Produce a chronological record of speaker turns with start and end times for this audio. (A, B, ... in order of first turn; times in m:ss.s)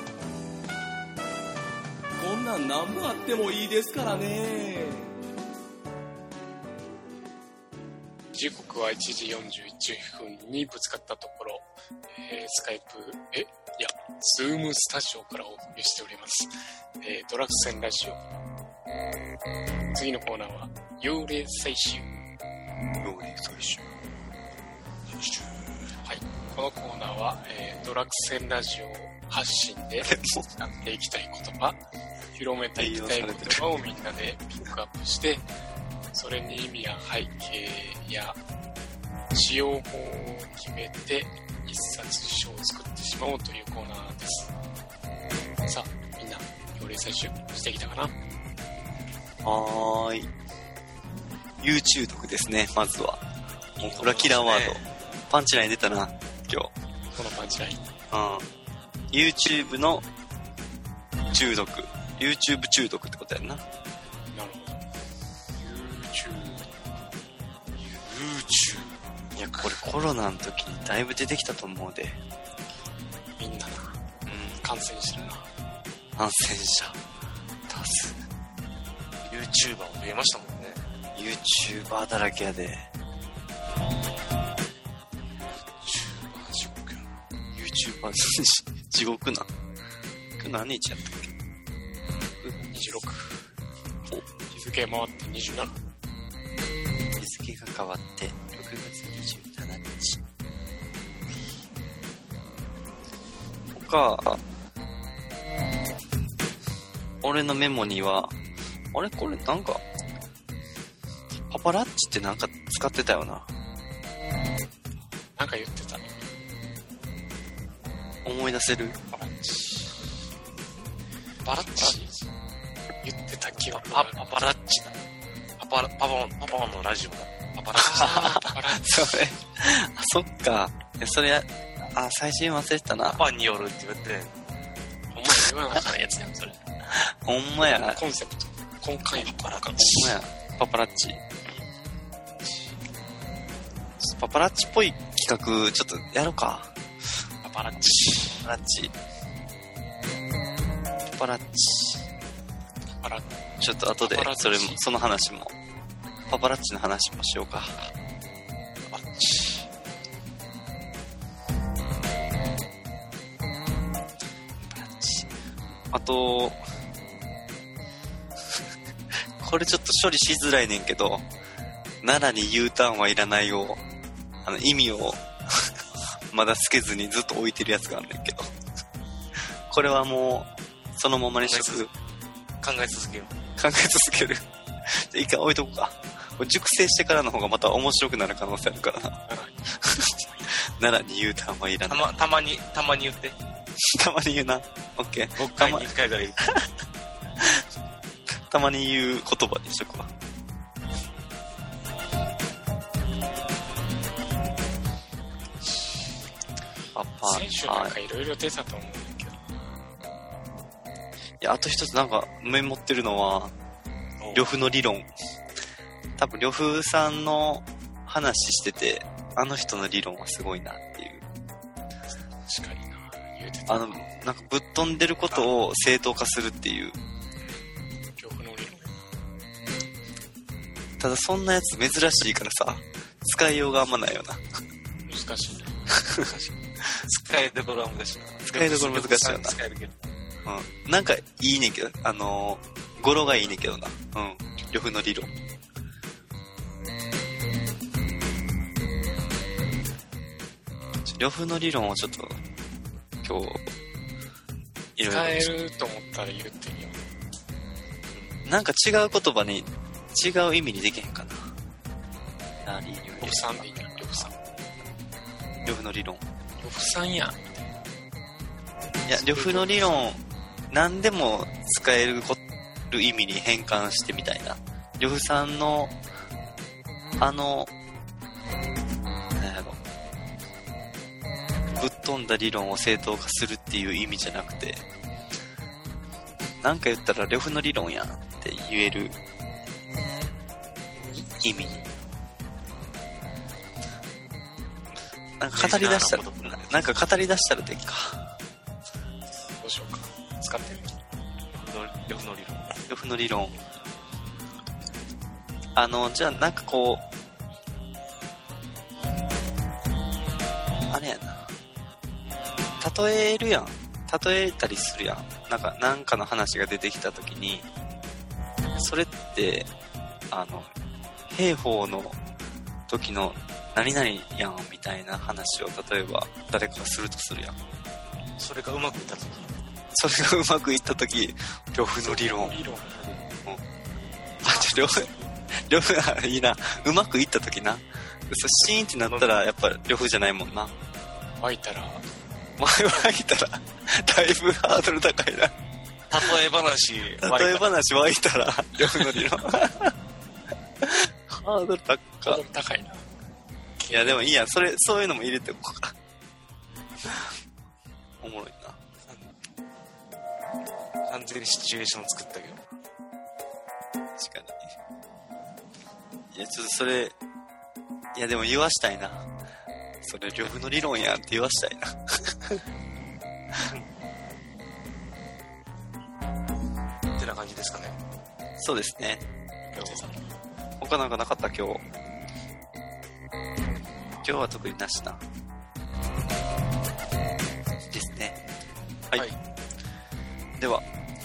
0:02.2-0:05.1 A
0:08.3-0:18.2 B
0:19.9-0:22.3 B
0:23.0-0:23.8 C
0:26.0-0:31.8 B
0:30.0-0:30.4 C
0:32.3-0:35.5 B
0:32.8-0:33.7 C
0:36.1-0:38.4 B
0:39.3-0:44.5 B
0:45.6-0:48.2 B
0:49.4-0:50.3 C
0:51.6-0:53.2 C
0:53.8-0:56.7 C
0:53.8-0:54.8 D
0:57.1-0:57.8 B
0:58.1-0:58.5 C
0:59.1-1:00.0 C
1:01.3-1:03.6 C
1:04.3-1:04.8 B
1:05.6-1:06.7 B
1:08.0-1:09.8 D
1:09.4-1:12.2 C
1:13.4-1:15.5 B
1:14.3-1:14.7 C
1:16.2-1:17.0 C
1:17.7-1:18.2 C
1:19.2-1:20.8 D
1:21.2-1:22.9 C
1:25.8-1:27.0 D
1:27.5-1:29.5 C
1:30.4-1:31.3 C
1:32.4-1:32.7 C
1:32.7-1:33.5 B
1:34.5-1:35.7 B
1:37.2-1:40.2 C
1:43.7-1:44.4 C
1:47.2-1:48.3 C
1:48.9-1:49.8 C
1:51.5-1:53.5 C
1:55.3-1:56.2 B
1:58.2-1:59.0 C
1:59.1-1:59.9 D
2:01.4-2:02.0 D
2:01.5-2:02.2 B
2:03.0-2:04.3 B
2:03.7-2:05.0 D
2:05.6-2:08.3 D
2:07.8-2:09.1 B
2:08.0-2:13.2 C
2:13.0-2:14.3 D
2:15.1-2:16.6 B
2:17.0-2:18.0 C
2:17.6-2:19.6 B
2:19.1-2:20.2 D
2:19.7-2:21.2 C
2:24.0-2:26.7 C
2:27.4-2:27.9 B
2:27.8-2:28.4 D
2:28.4-2:28.9 C
2:31.1-2:32.0 C
2:33.0-2:33.3 B
2:33.6-2:35.5 C
2:34.0-2:34.8 B
2:36.3-2:37.8 C
2:38.9-2:39.6 D
2:45.9-2:46.6 C
2:49.4-2:51.2 C
2:52.0-2:53.8 C
2:54.4-2:55.2 C
2:56.3-2:58.5 C
2:59.7-3:01.9 C
3:01.4-3:01.9 D
3:02.6-3:03.3 D
3:03.6-3:09.2 C
3:09.3-3:10.5 B
3:10.7-3:12.1 C
3:11.9-3:13.4 D
3:13.8-3:16.6 C
3:15.4-3:16.5 D
3:18.5-3:20.1 C
3:26.9-3:28.0 C
3:27.2-3:29.5 B
3:31.4-3:33.5 C
3:34.2-3:34.5 D
3:34.3-3:35.1 C
3:36.2-3:41.2 C
3:42.4-3:44.0 B
3:43.7-3:47.0 C
3:48.2-3:49.0 B
3:51.0-3:54.4 C
3:55.0-3:55.8 B
3:56.2-4:00.1 D
3:58.5-3:59.6 C
4:00.4-4:05.3 C
4:11.0-4:12.4 C
4:13.2-4:13.6 C
4:15.0-4:15.5 C
4:15.0-4:17.0 B
4:18.4-4:21.5 C
4:22.6-4:24.3 C
4:23.2-4:24.3 B
4:25.6-4:26.2 C
4:26.6-4:27.5 B
4:29.1-4:35.9 C
4:29.1-4:30.0 B
4:37.2-4:37.7 C
4:39.4-4:39.8 C
4:41.7-4:44.8 C
4:46.6-4:49.2 C
4:51.4-4:51.8 C
4:55.4-4:58.2 C
4:55.5-4:56.9 D
4:59.6-5:00.9 B
5:01.5-5:02.7 D
5:02.9-5:03.5 C
5:05.7-5:07.0 C
5:10.9-5:11.5 C
5:12.8-5:17.7 C
5:18.8-5:19.7 C
5:20.3-5:20.7 C
5:21.3-5:22.2 C
5:22.9-5:27.6 C
5:28.4-5:29.5 D
5:29.9-5:32.6 C
5:31.9-5:33.0 B
5:34.4-5:40.7 C
5:39.1-5:39.4 D
5:41.4-5:42.0 B
5:42.6-5:45.5 C
5:46.1-5:47.7 D
5:47.2-5:49.9 C
5:50.8-5:52.4 C
5:52.2-5:53.0 B
5:53.8-5:54.2 B
5:53.9-5:55.9 C
5:58.2-5:58.8 C
6:01.1-6:02.6 D
6:04.2-6:04.6 C
6:06.3-6:07.1 C
6:08.1-6:09.3 C
6:10.0-6:12.6 C
6:17.2-6:18.0 D
6:18.6-6:19.2 C
6:19.7-6:20.2 B
6:19.7-6:20.1 D
6:20.8-6:21.8 C
6:24.2-6:25.2 C
6:27.9-6:28.4 C
6:30.6-6:30.8 C